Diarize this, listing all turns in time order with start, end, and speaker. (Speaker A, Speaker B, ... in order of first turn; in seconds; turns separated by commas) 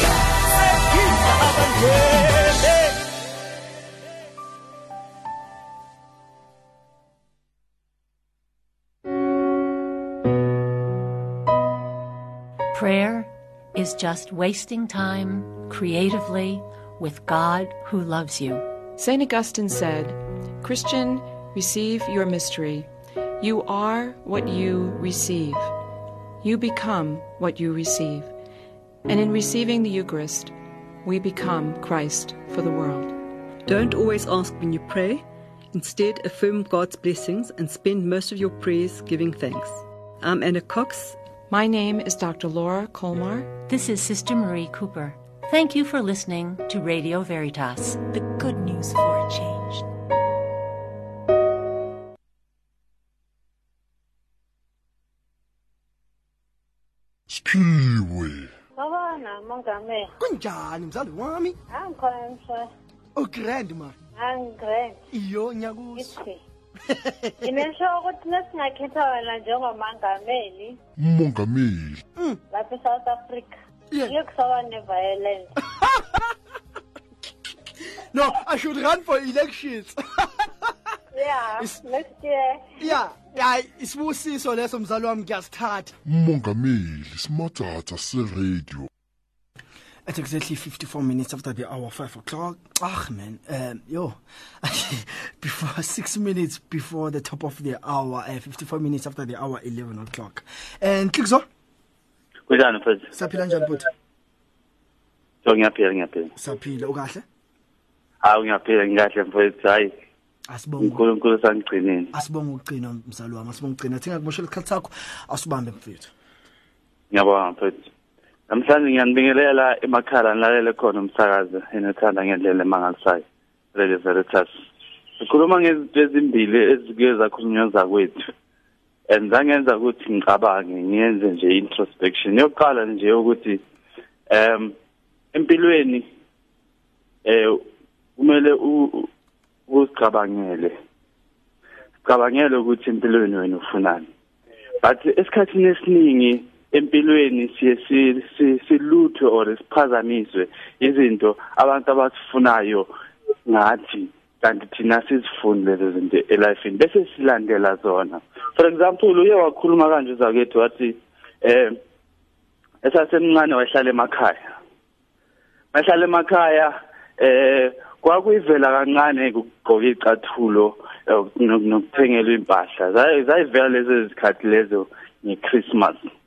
Speaker A: 0.5-3.0, Speaker B: 12.7-18.7, Speaker C: 19.0-22.9, Speaker C: 23.4-25.7, Speaker C: 26.4-28.3, Speaker C: 29.1-33.1, Speaker D: 33.7-41.2, Speaker C: 41.5-43.5, Speaker B: 43.7-49.9, Speaker E: 57.5-58.5, Speaker F: 58.8-60.1, Speaker G: 60.2-61.6, Speaker F: 61.7-62.7, Speaker G: 63.1-64.0, Speaker F: 64.2-65.0, Speaker G: 65.1-66.2, Speaker F: 66.0-66.4, Speaker G: 66.9-67.5, Speaker F: 67.4-70.8, Speaker E: 71.0-72.0, Speaker F: 72.5-75.5, Speaker G: 73.9-74.2, Speaker G: 75.7-76.2, Speaker G: 78.1-80.5, Speaker F: 81.1-82.7, Speaker G: 82.8-85.9, Speaker E: 86.1-88.9, Speaker G: 90.1-101.5, Speaker A: 102.5-103.1, Speaker G: 103.1-103.9, Speaker A: 105.4-106.3, Speaker G: 106.3-107.2, Speaker A: 108.2-109.9, Speaker G: 110.5-111.0, Speaker A: 110.8-112.1, Speaker G: 112.1-116.1, Speaker A: 117.1-117.9, Speaker A: 118.5-124.5, Speaker A: 125.2-128.3, Speaker A: 129.1-133.6, Speaker A: 134.3-134.8, Speaker A: 135.3-136.1, Speaker A: 137.2-137.6, Speaker A: 138.2-139.1, Speaker A: 139.7-140.8, Speaker A: 142.0-144.1, Speaker A: 144.8-152.9, Speaker A: 153.5-161.8, Speaker A: 162.8-164.5, Speaker A: 165.7-176.1